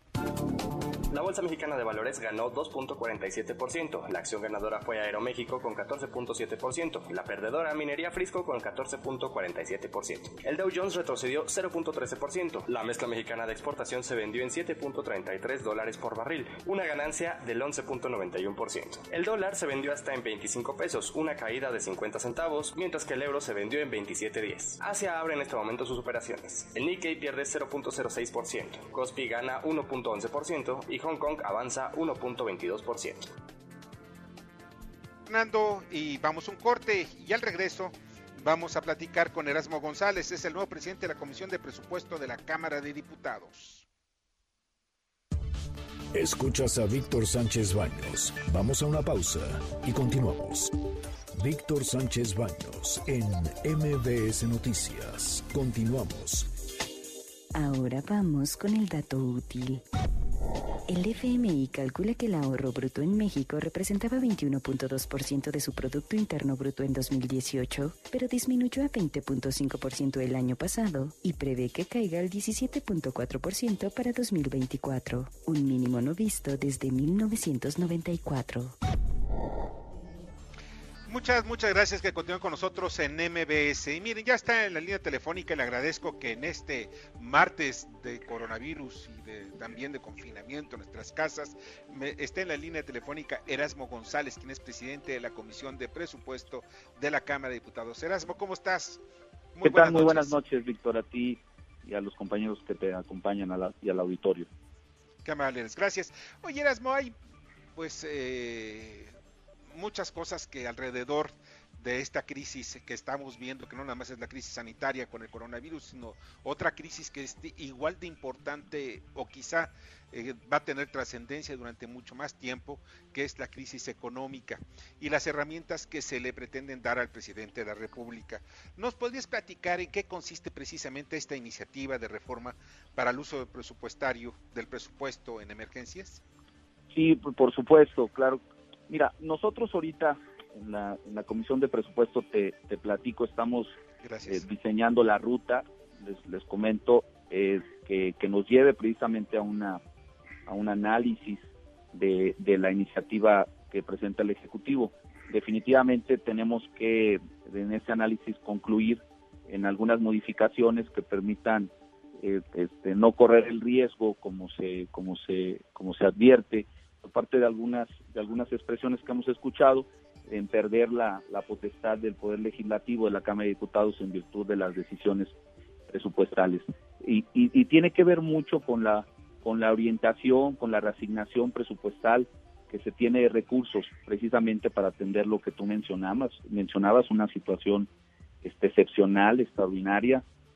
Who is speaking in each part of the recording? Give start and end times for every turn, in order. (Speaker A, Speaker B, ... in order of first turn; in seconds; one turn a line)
Speaker A: 1.1-33.3
Speaker B: 35.3-43.9
Speaker C: 46.1-50.8
Speaker C: 51.4-56.5
Speaker D: 57.5-59.8
Speaker D: 60.9-78.8
Speaker B: 81.1-99.0
Speaker B: 99.6-100.4
Speaker E: 99.6-104.5
Speaker B: 105.2-107.1
Speaker B: 107.8-109.1
Speaker B: 109.7-136.2
Speaker E: 136.9-143.8
Speaker B: 144.0-144.4
Speaker E: 144.3-149.8
Speaker E: 150.4-161.7
Speaker E: 162.2-175.3
Speaker E: 175.9-187.9
Speaker E: 188.4-190.2